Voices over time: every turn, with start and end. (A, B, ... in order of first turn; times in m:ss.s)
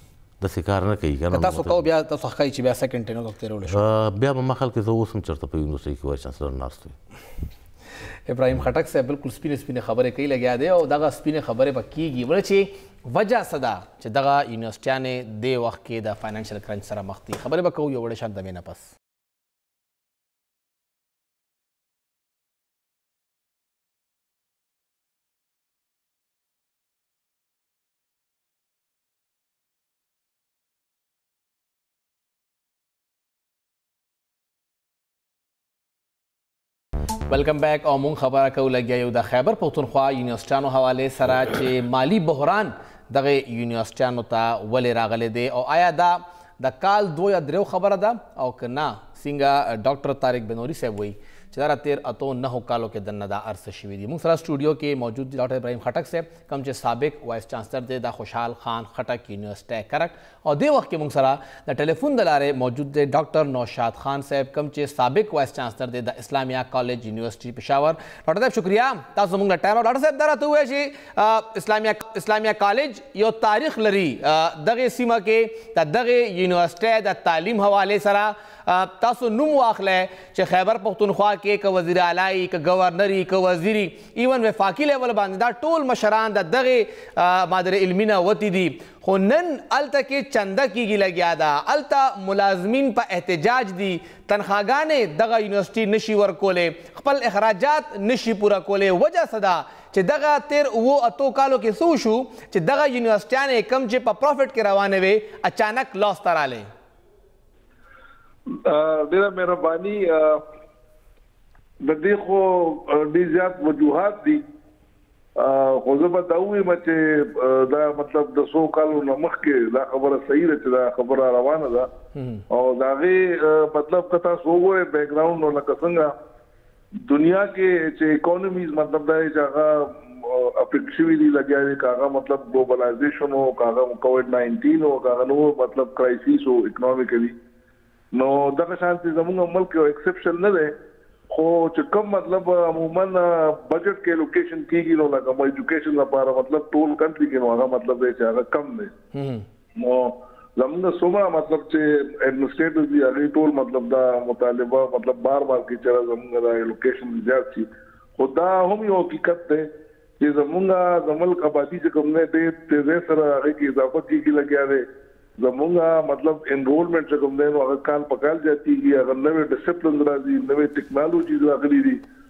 0:00.4-0:01.9 A
0:01.3-0:03.8 B
0:03.7-0:07.0 A
0:08.3-0:18.9 B
0:37.3-1:46.7 B
1:48.5-1:50.4 C
1:51.8-1:54.4 C
1:55.4-2:01.9 C
2:02.2-2:02.4 B
2:02.5-2:06.1 C
2:07.0-2:17.4 C
2:18.1-2:20.8 C
2:21.3-2:28.9 C
2:29.1-2:29.5 B
2:29.8-2:39.7 C
2:40.2-2:44.9 C
2:45.4-2:52.0 C